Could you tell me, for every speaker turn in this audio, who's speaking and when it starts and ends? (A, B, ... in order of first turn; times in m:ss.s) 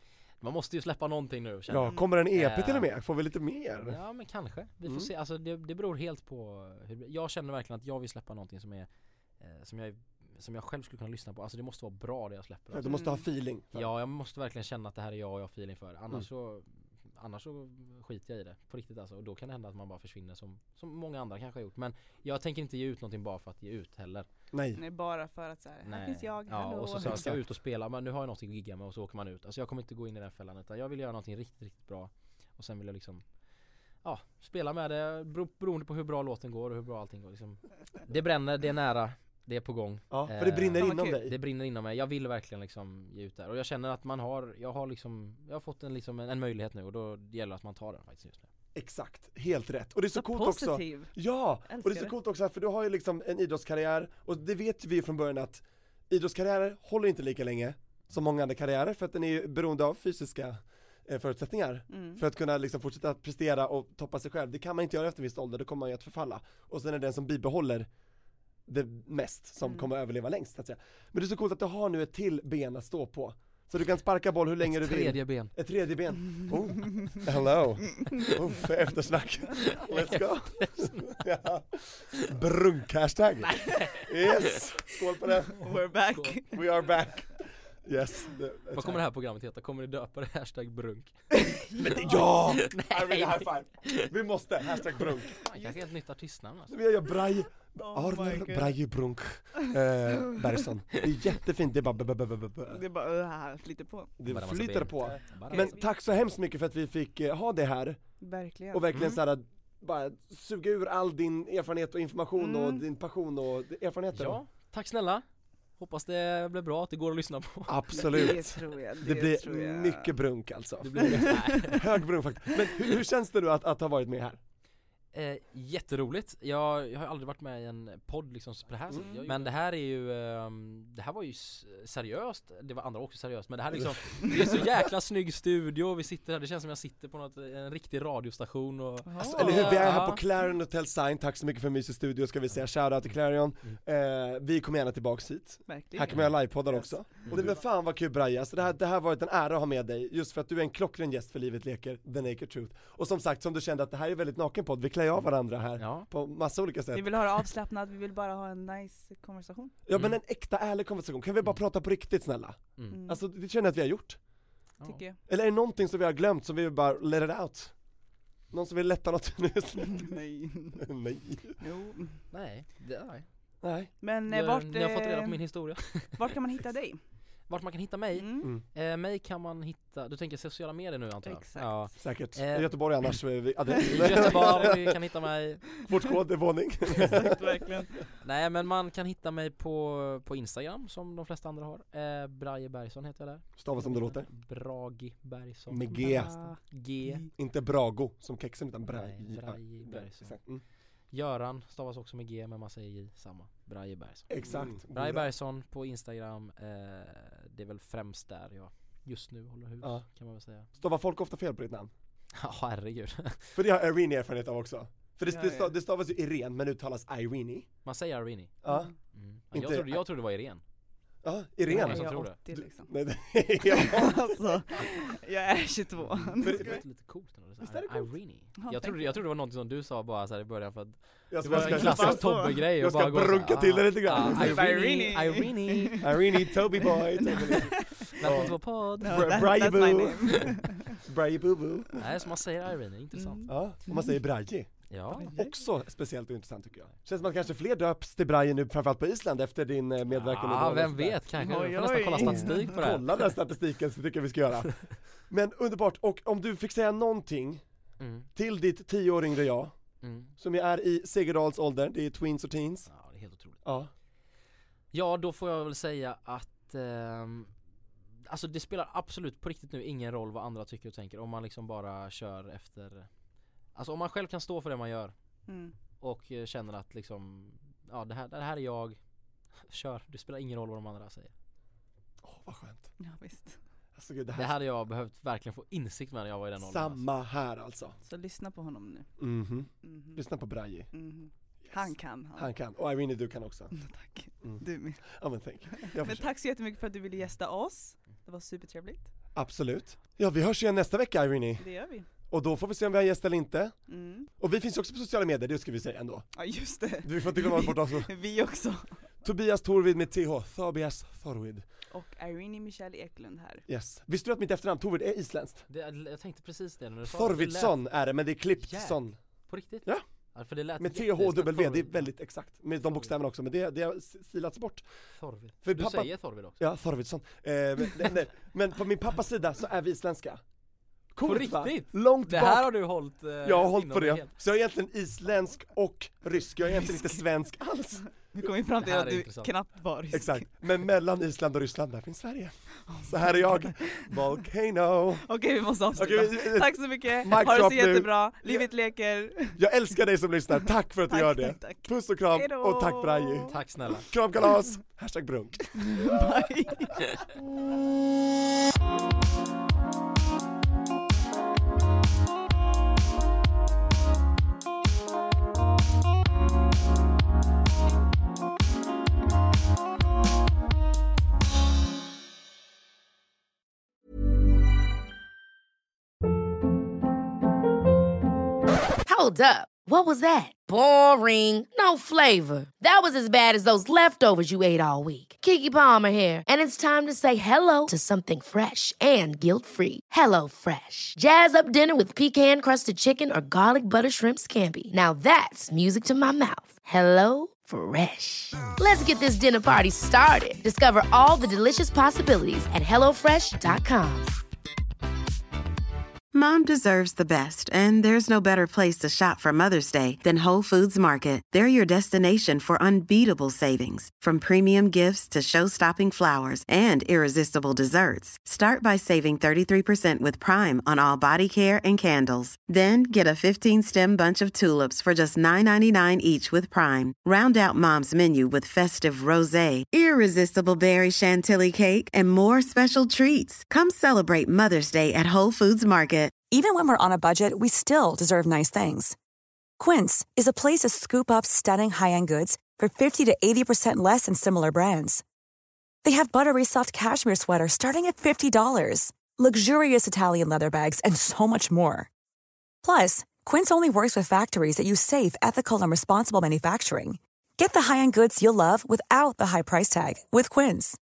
0:00.4-0:02.9 A
0:01.7-0:04.0 B
0:03.8-0:08.9 A
0:09.4-0:13.0 A
0:12.7-0:13.9 B
0:12.9-0:13.2 C
0:13.7-0:24.3 A
0:24.5-0:24.8 B
0:24.8-0:27.3 C
0:25.8-0:33.2 A
0:27.0-0:27.4 B
0:34.0-0:48.5 A
0:40.1-0:41.4 B
0:40.8-0:41.2 C
0:48.8-1:07.9 B
0:50.1-0:51.1 C
0:51.7-0:52.2 C
1:01.9-1:02.2 C
1:08.7-1:25.6 B
1:09.6-1:09.9 C
1:14.6-1:15.5 A
1:19.8-1:21.2 A
1:23.6-1:24.4 A
1:25.6-1:26.4 A
1:25.6-1:26.7 C
1:26.5-1:29.0 B
1:28.7-1:31.2 A
1:31.4-1:32.1 C
1:31.8-1:35.4 B
1:32.0-1:34.1 A
1:35.3-1:36.8 A
1:35.5-1:35.8 C
1:36.7-1:42.8 B
1:37.8-1:38.8 C
1:42.7-1:44.1 C
1:44.2-1:48.0 B
1:44.3-1:45.7 A
1:45.5-1:45.8 C
1:48.2-1:48.8 C
1:48.7-1:54.4 B
1:48.9-1:49.2 A
1:52.4-1:52.8 C
1:54.1-1:55.2 A
1:55.8-1:58.3 A
1:57.7-2:04.4 B
1:58.0-2:00.1 C
2:00.8-2:01.8 A
2:01.1-2:01.8 C
2:05.1-2:20.2 A
2:08.9-2:09.4 B
2:08.9-2:09.4 C
2:19.1-2:19.9 C
2:19.2-2:37.2 B
2:25.7-2:27.3 C
2:26.1-2:26.4 A
2:27.2-2:27.6 A
2:35.8-2:36.1 A
2:36.9-2:39.8 C
2:39.9-2:44.2 B
2:39.9-2:40.2 A
2:42.8-2:43.0 A
2:42.9-2:43.2 C
2:44.8-2:45.2 C
2:45.3-2:47.8 B
2:48.5-2:50.2 B
2:49.9-2:50.8 C
2:50.8-2:51.6 B
2:51.6-2:52.2 C
2:52.3-2:53.3 A
2:53.6-2:53.9 B
2:54.0-2:57.0 C
2:54.3-2:56.3 A
2:57.5-3:03.2 A
2:58.2-2:58.5 C
3:01.2-3:02.0 C
3:02.0-3:05.0 B
3:03.8-3:05.8 A
3:04.1-3:04.7 C
3:05.8-3:07.4 B
3:07.1-3:08.1 C
3:08.2-3:17.3 A
3:13.6-3:14.3 B
3:15.7-3:16.3 B
3:15.9-3:17.3 C
3:17.4-3:20.6 B
3:18.9-3:20.4 A
3:21.1-3:30.7 A
3:24.3-3:25.3 B
3:30.7-3:31.9 B
3:32.4-3:33.6 A
3:33.6-3:37.7 B
3:35.3-3:35.7 C
3:37.8-3:38.6 A
3:38.6-3:38.9 B
3:38.7-3:38.9 C
3:39.1-3:40.6 A
3:39.5-3:40.0 B
3:41.2-3:44.6 B
3:41.7-3:42.4 A
3:41.7-3:42.9 C
3:43.6-3:46.8 C
3:46.0-3:56.1 A
3:46.4-3:46.8 B
3:47.6-3:48.1 B
3:48.6-3:49.2 C
3:51.3-3:54.9 B
3:51.5-3:52.6 C
3:54.2-3:58.4 C
3:56.0-4:02.1 B
3:57.6-3:59.6 A
3:59.0-4:01.0 C
4:02.0-4:03.5 A
4:03.2-4:04.2 C
4:03.5-4:11.2 B
4:04.9-4:05.3 A
4:05.2-4:05.6 C
4:10.1-4:13.2 A
4:11.4-4:12.7 C
4:12.0-4:17.6 B
4:18.0-4:18.3 A
4:18.4-4:19.8 B
4:20.0-4:20.3 A
4:20.4-4:22.9 B
4:22.9-4:23.6 A
4:23.6-4:23.9 B
4:24.9-4:27.5 A
4:28.3-4:33.1 A
4:33.8-4:35.1 A
4:35.5-4:35.7 C
4:36.0-4:39.0 A
4:39.7-4:41.3 A
4:42.2-4:42.9 B
4:43.0-4:43.6 C
4:44.0-4:44.6 B
4:44.3-4:47.0 A
4:46.6-4:48.0 B
4:48.0-4:49.1 C
4:49.2-4:50.9 B
4:49.8-4:50.2 C
4:50.9-4:52.5 C
4:51.6-4:53.7 B
4:53.7-4:59.1 C
4:54.4-4:56.3 B
4:59.4-5:01.7 B
5:01.6-5:02.1 C
5:02.3-5:03.8 B
5:03.9-5:04.3 C
5:04.4-5:06.3 B
5:06.4-5:09.1 C
5:07.0-5:08.1 B
5:09.2-5:11.6 B
5:11.9-5:13.6 C
5:13.7-5:15.6 B
5:15.7-5:17.8 A
5:17.0-5:19.2 B
5:18.6-5:22.1 A
5:20.8-5:24.9 B
5:25.2-5:26.6 A
5:25.6-5:30.4 B
5:31.1-5:32.8 B
5:31.2-5:34.4 A
5:33.4-5:38.1 B
5:38.3-5:40.5 C
5:38.8-5:39.5 A
5:40.1-5:45.3 B
5:43.0-5:44.1 C
5:45.2-5:49.6 C
5:45.9-5:48.7 B
5:49.6-5:56.1 B
5:51.1-5:53.6 C
5:53.5-5:54.1 A
5:55.8-5:57.1 C
6:19.0-6:44.4 D
6:46.3-7:16.4 E
7:16.5-7:19.2 F
7:19.8-7:25.2 F
7:26.0-7:32.1 F
7:32.8-7:41.0 F